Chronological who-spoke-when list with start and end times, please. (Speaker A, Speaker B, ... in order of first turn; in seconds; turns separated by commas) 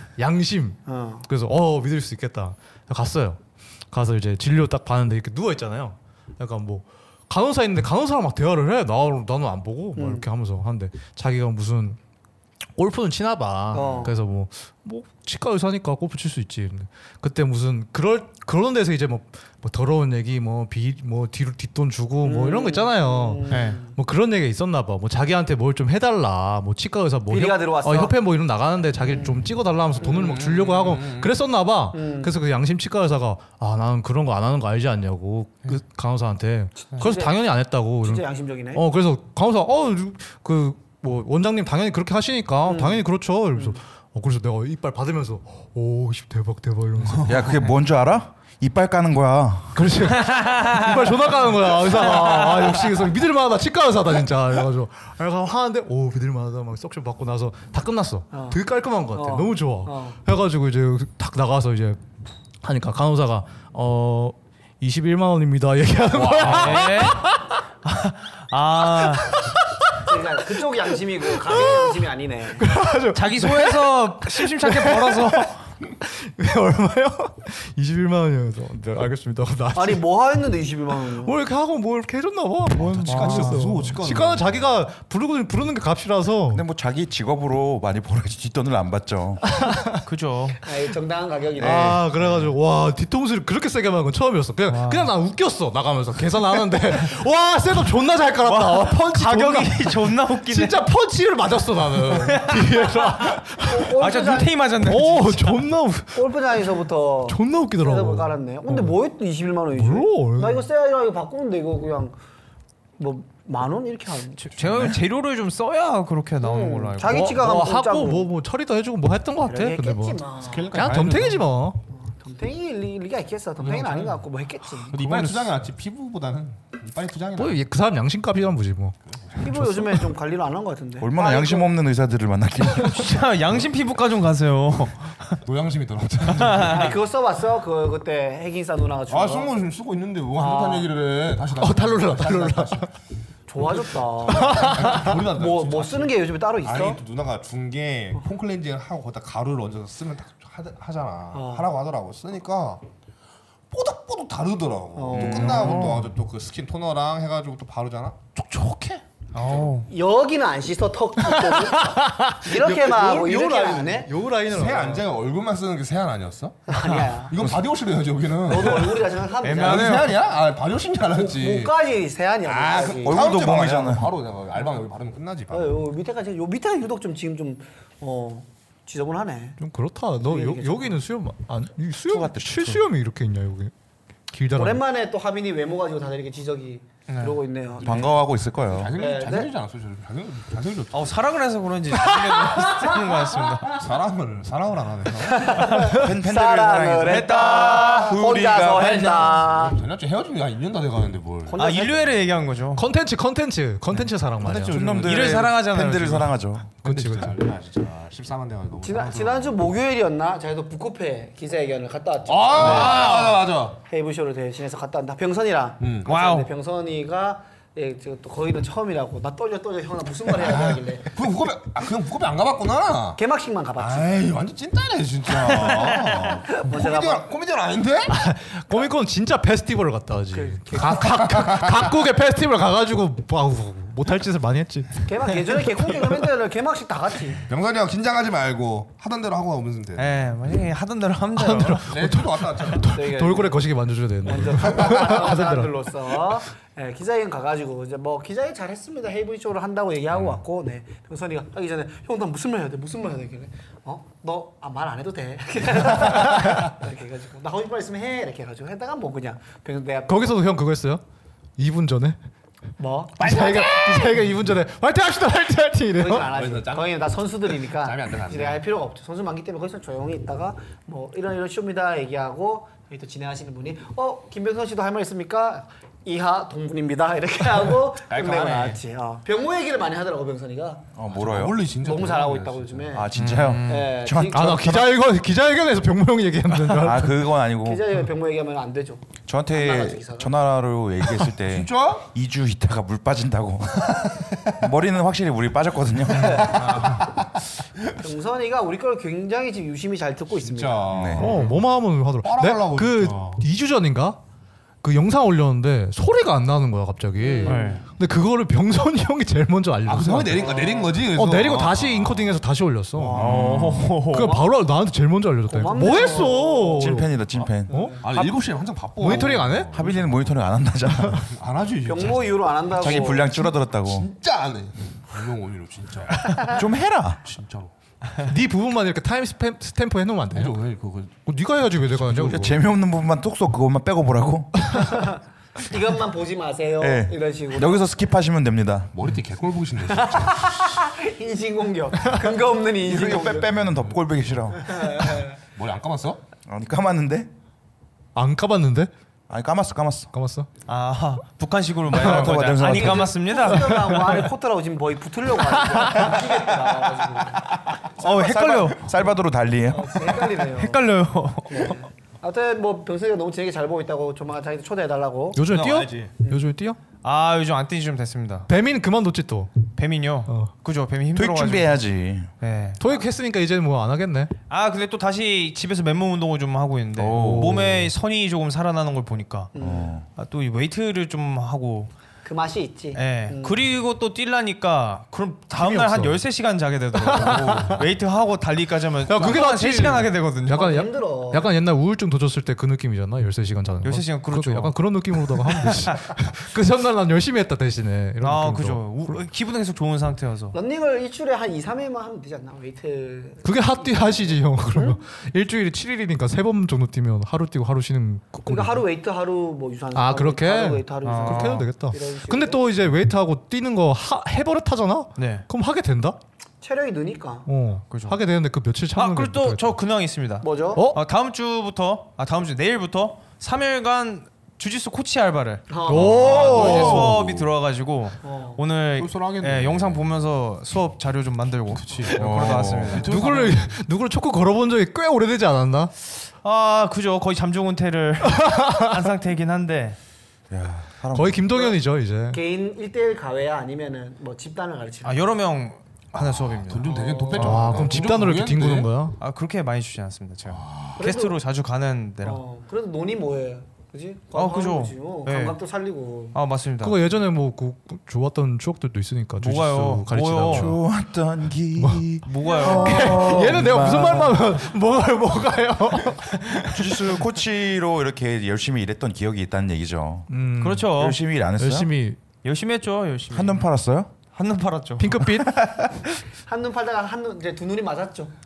Speaker A: 0.2-12.0, Speaker B: 0.8-1.2, Speaker B: 9.9-10.2, Speaker A: 12.8-47.3, Speaker B: 13.7-14.2, Speaker B: 22.2-23.9, Speaker C: 23.5-23.8, Speaker B: 27.3-28.1, Speaker B: 29.0-29.4, Speaker D: 30.0-31.3, Speaker B: 31.9-32.3, Speaker B: 36.8-37.3, Speaker B: 38.0-38.9, Speaker B: 42.6-43.8, Speaker E: 47.2-49.9, Speaker A: 49.7-62.0, Speaker C: 50.3-50.9, Speaker C: 52.2-52.6, Speaker B: 58.3-58.6, Speaker B: 59.1-60.2, Speaker A: 62.6-67.6, Speaker D: 66.1-66.9, Speaker C: 66.4-67.2, Speaker C: 67.8-69.3, Speaker A: 68.9-70.2, Speaker B: 70.0-72.7, Speaker A: 71.2-72.0, Speaker A: 72.6-80.0, Speaker C: 73.1-75.7, Speaker B: 79.7-81.3, Speaker A: 81.0-86.6, Speaker D: 82.8-84.8, Speaker C: 83.0-83.7, Speaker E: 86.5-89.4, Speaker A: 89.5-90.0, Speaker C: 90.0-90.6, Speaker B: 90.6-92.0, Speaker A: 91.6-104.0, Speaker E: 91.6-92.0, Speaker C: 94.7-95.1, Speaker C: 98.4-100.8, Speaker C: 102.1-105.6, Speaker B: 103.6-104.6, Speaker A: 104.8-106.3, Speaker B: 106.1-112.2, Speaker A: 107.3-109.0, Speaker A: 109.7-110.7, Speaker B: 113.0-114.6, Speaker C: 114.4-117.4, Speaker E: 114.6-115.0, Speaker B: 116.4-118.3, Speaker A: 117.0-121.8, Speaker B: 119.5-120.9, Speaker D: 120.5-121.5, Speaker B: 121.9-125.0, Speaker D: 123.6-124.2, Speaker D: 124.9-127.6, Speaker A: 125.0-125.5, Speaker A: 127.4-130.1, Speaker D: 129.1-129.4, Speaker B: 129.4-131.7, Speaker E: 131.0-133.1, Speaker C: 132.7-135.4, Speaker D: 135.4-137.0, Speaker C: 136.3-136.9, Speaker B: 136.6-139.5, Speaker D: 139.1-142.9, Speaker B: 140.3-140.9, Speaker A: 141.6-142.9, Speaker B: 143.5-147.0, Speaker A: 144.2-145.2, Speaker D: 144.3-152.8, Speaker B: 151.3-151.7, Speaker D: 153.7-159.7, Speaker B: 154.9-155.9, Speaker C: 155.3-156.1, Speaker A: 155.4-156.0, Speaker C: 159.3-159.9, Speaker B: 159.9-164.2, Speaker A: 161.2-165.1, Speaker D: 164.4-171.8, Speaker B: 166.7-167.4, Speaker E: 167.4-167.6, Speaker B: 168.4-170.1, Speaker C: 169.4-170.2, Speaker B: 171.1-173.2, Speaker D: 172.4-175.8, Speaker E: 173.0-174.2, Speaker B: 175.5-179.6, Speaker A: 179.6-183.7, Speaker B: 180.2-181.0, Speaker E: 182.1-182.8, Speaker A: 184.3-184.8, Speaker B: 184.5-188.2, Speaker C: 187.1-187.4, Speaker E: 187.8-188.9, Speaker D: 188.7-191.1, Speaker B: 189.0-189.5, Speaker C: 190.9-193.9, Speaker A: 192.1-192.7, Speaker D: 193.5-195.6, Speaker B: 195.2-199.8, Speaker E: 195.9-199.3, Speaker C: 197.0-198.1, Speaker D: 198.7-201.6, Speaker B: 201.4-202.1, Speaker C: 201.6-202.8, Speaker A: 202.7-205.1, Speaker D: 204.4-205.3, Speaker E: 204.7-206.7, Speaker C: 205.0-206.3, Speaker A: 206.8-207.3, Speaker D: 206.8-209.6, Speaker B: 208.8-221.1, Speaker D: 212.3-213.8, Speaker C: 212.6-213.4, Speaker D: 215.8-216.1, Speaker C: 216.1-216.5, Speaker D: 220.4-223.2, Speaker B: 223.2-224.1, Speaker D: 223.8-228.1, Speaker B: 225.5-227.3, Speaker A: 228.1-235.1, Speaker B: 230.3-231.3, Speaker D: 231.2-231.7, Speaker B: 235.1-237.4, Speaker D: 237.5-240.3, Speaker C: 239.9-242.1, Speaker A: 241.4-245.7, Speaker D: 241.9-243.0, Speaker B: 242.9-243.6, Speaker B: 244.2-260.4, Speaker D: 244.4-245.3, Speaker A: 260.1-261.0, Speaker A: 261.6-262.2, Speaker B: 262.8-263.3, Speaker D: 263.2-264.3, Speaker A: 263.2-266.3, Speaker B: 266.0-280.9, Speaker D: 266.2-268.6, Speaker D: 278.1-278.8, Speaker E: 280.9-281.6, Speaker D: 281.1-283.0, Speaker B: 281.8-284.7, Speaker E: 282.9-285.0, Speaker C: 283.1-283.9, Speaker A: 284.3-287.2, Speaker E: 286.7-287.8, Speaker B: 287.6-290.3, Speaker E: 289.3-294.0, Speaker D: 291.2-292.1, Speaker D: 293.9-294.5, Speaker E: 294.6-296.9, Speaker D: 296.2-297.4, Speaker B: 298.0-300.9, Speaker D: 300.4-301.6, Speaker E: 300.9-301.4, Speaker A: 301.2-304.2, Speaker D: 302.2-303.4, Speaker A: 304.8-310.5, Speaker B: 307.2-307.8, Speaker C: 307.4-307.8, Speaker D: 309.9-312.4, Speaker B: 310.4-311.0, Speaker A: 311.1-317.1, Speaker B: 312.9-313.5, Speaker E: 313.1-313.9, Speaker C: 313.1-314.4, Speaker B: 314.1-314.5, Speaker B: 315.5-316.9, Speaker E: 316.8-317.7, Speaker B: 317.7-318.1, Speaker A: 317.7-318.4, Speaker D: 318.0-320.4, Speaker A: 318.9-319.7, Speaker E: 319.7-321.3, Speaker D: 321.2-326.6, Speaker B: 321.8-323.5, Speaker E: 322.7-324.1, Speaker E: 326.4-327.2, Speaker D: 327.2-327.7, Speaker A: 328.2-330.6, Speaker D: 330.3-331.2, Speaker A: 331.2-332.6, Speaker E: 332.1-335.0, Speaker B: 335.0-337.9, Speaker E: 336.8-338.9, Speaker D: 338.9-340.7, Speaker B: 339.9-343.5, Speaker E: 342.8-345.1, Speaker D: 343.6-343.9, Speaker B: 344.6-345.4, Speaker D: 345.4-346.2, Speaker E: 346.4-347.3, Speaker A: 348.1-348.9, Speaker E: 349.3-350.1, Speaker A: 350.1-350.5, Speaker C: 350.7-354.3, Speaker E: 351.9-353.1, Speaker A: 351.9-352.3, Speaker B: 352.8-357.5, Speaker A: 355.5-356.1, Speaker C: 357.9-359.0, Speaker E: 358.0-360.1, Speaker B: 359.7-360.8, Speaker C: 360.3-361.8, Speaker B: 361.4-365.4, Speaker A: 365.3-366.8, Speaker D: 365.4-366.1, Speaker C: 367.0-368.5, Speaker A: 368.5-369.6, Speaker C: 369.7-371.8, Speaker E: 371.1-372.3, Speaker C: 372.4-372.8, Speaker A: 372.8-374.3, Speaker C: 374.5-379.5, Speaker E: 376.9-377.6, Speaker A: 377.1-377.9, Speaker B: 379.5-380.0, Speaker E: 379.6-380.1, Speaker C: 380.1-381.9, Speaker B: 382.2-383.6, Speaker C: 382.9-390.6, Speaker A: 385.5-386.2, Speaker A: 386.9-387.8, Speaker D: 387.2-387.8, Speaker E: 387.2-387.7, Speaker A: 389.1-399.1, Speaker B: 390.5-391.5, Speaker C: 393.8-395.9, Speaker C: 398.2-400.6, Speaker B: 400.5-405.0, Speaker A: 403.4-408.8, Speaker B: 408.4-412.6, Speaker A: 409.9-416.2, Speaker C: 411.0-411.7, Speaker C: 415.1-415.4, Speaker B: 416.6-417.5, Speaker A: 417.4-419.6, Speaker C: 417.9-418.2, Speaker C: 418.9-433.5, Speaker B: 420.4-420.9, Speaker A: 420.7-421.0, Speaker B: 425.7-427.1, Speaker A: 425.9-427.1, Speaker D: 426.0-427.4, Speaker B: 428.2-428.6, Speaker D: 429.0-430.1, Speaker D: 431.7-433.7, Speaker E: 432.1-433.1, Speaker A: 433.0-435.9, Speaker C: 436.2-440.0, Speaker A: 438.3-438.9, Speaker E: 440.5-441.5, Speaker A: 441.1-442.4, Speaker B: 441.5-441.8, Speaker B: 442.3-445.3, Speaker C: 445.0-447.8, Speaker D: 446.1-448.9, Speaker B: 446.8-448.1, Speaker A: 447.4-449.2, Speaker C: 449.2-452.4, Speaker D: 450.5-451.0, Speaker B: 451.0-451.4, Speaker B: 452.2-456.4, Speaker C: 454.3-455.6, Speaker C: 456.3-457.1, Speaker A: 456.8-460.8, Speaker C: 459.4-460.7, Speaker E: 460.4-464.4, Speaker C: 462.2-463.4, Speaker B: 462.4-463.2, Speaker A: 462.5-466.7, Speaker E: 466.7-470.3, Speaker A: 470.3-470.9, Speaker C: 470.6-471.2, Speaker E: 470.9-471.9, Speaker A: 471.6-472.2, Speaker C: 472.4-473.6, Speaker E: 473.3-474.1, Speaker C: 474.3-475.3, Speaker A: 475.0-475.6, Speaker B: 476.5-478.3